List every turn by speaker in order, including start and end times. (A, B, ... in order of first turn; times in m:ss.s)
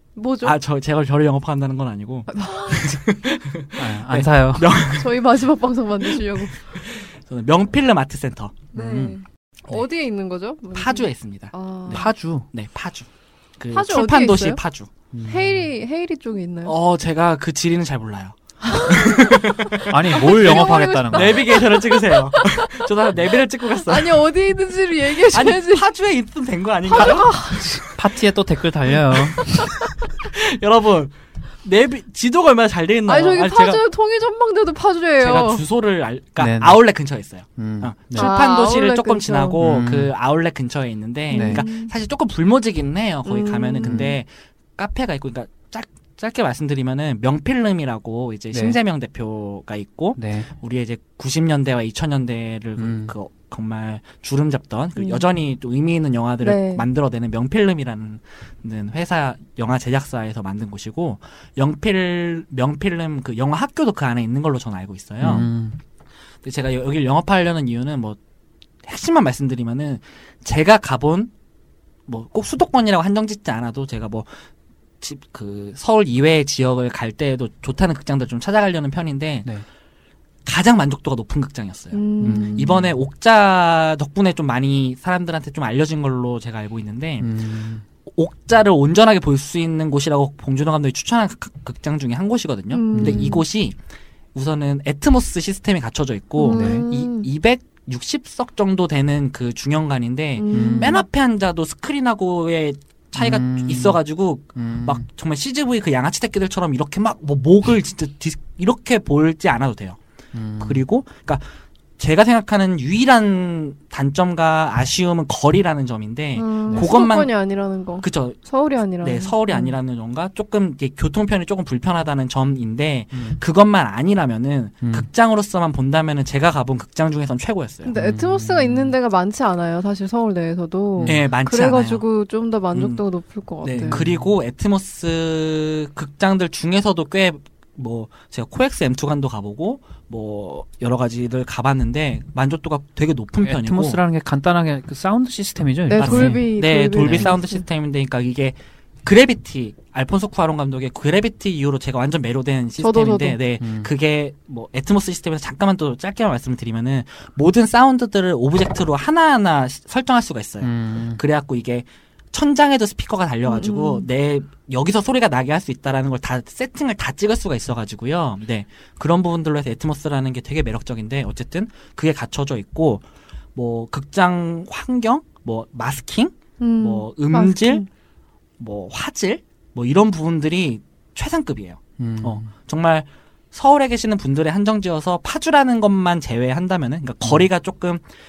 0:00.2-0:00.6 A
0:00.4-0:05.5 B
0:02.3-0:03.0 A
0:03.8-0:04.7 C
0:04.9-0:06.8 A
0:06.0-0:09.2 B
0:08.7-0:12.1 A
0:10.7-0:13.1 B
0:11.9-0:12.5 C
0:13.6-0:14.9 B
0:13.7-0:14.6 A
0:15.1-0:15.7 C
0:15.3-0:16.8 A
0:16.6-0:24.2 B
0:18.6-0:22.9 A
0:19.9-0:21.6 C
0:23.8-0:25.9 A
0:25.2-0:27.4 B
0:26.9-0:27.9 A
0:27.6-0:29.4 C
0:29.4-0:33.8 B
0:33.1-0:35.6 A
0:35.2-1:05.5 B
0:36.4-0:36.8 C
0:37.6-0:38.3 C
0:38.2-0:39.6 A
0:39.6-0:40.1 C
0:41.3-0:41.9 A
0:41.3-0:41.6 C
0:43.2-0:44.2 A
0:43.8-0:44.1 C
0:48.5-0:48.8 C
0:50.2-0:50.5 C
0:52.8-0:53.1 C
0:55.0-0:55.2 A
0:56.4-0:56.8 A
1:05.2-1:05.8 C
1:06.4-1:08.2 B
1:08.8-1:11.3 B
1:12.1-1:14.3 B
1:15.0-1:19.5 B
1:20.4-1:27.3 B
1:21.9-1:22.7 A
1:22.2-1:22.9 C
1:27.2-1:27.8 C
1:28.1-1:33.8 B
1:32.7-1:33.4 A
1:32.9-1:33.3 C
1:34.3-1:50.0 B
1:36.4-1:37.3 A
1:36.5-1:36.8 C
1:40.4-1:41.0 A
1:40.5-1:41.0 C
1:43.2-1:44.0 C
1:44.6-1:45.0 C
1:50.3-1:50.8 C
1:50.6-1:51.4 B
1:52.0-1:57.3 B
1:56.4-1:59.8 A
1:58.0-1:58.4 B
1:59.0-2:08.0 B
2:03.1-2:03.4 C
2:04.8-2:05.1 C
2:07.8-2:14.0 A
2:08.0-2:08.9 C
2:11.0-2:11.2 C
2:11.0-2:12.0 B
2:12.7-2:13.0 B
2:13.6-2:24.0 B
2:13.8-2:14.3 C
2:23.4-2:26.5 C
2:25.9-2:27.6 A
2:26.0-2:57.8 B
2:27.0-2:27.3 C
2:32.8-2:33.4 A
2:33.6-2:33.9 C
2:40.6-2:41.2 C
2:43.4-2:44.1 A
2:56.6-2:57.9 A
2:58.6-3:08.0 B
3:02.0-3:02.5 C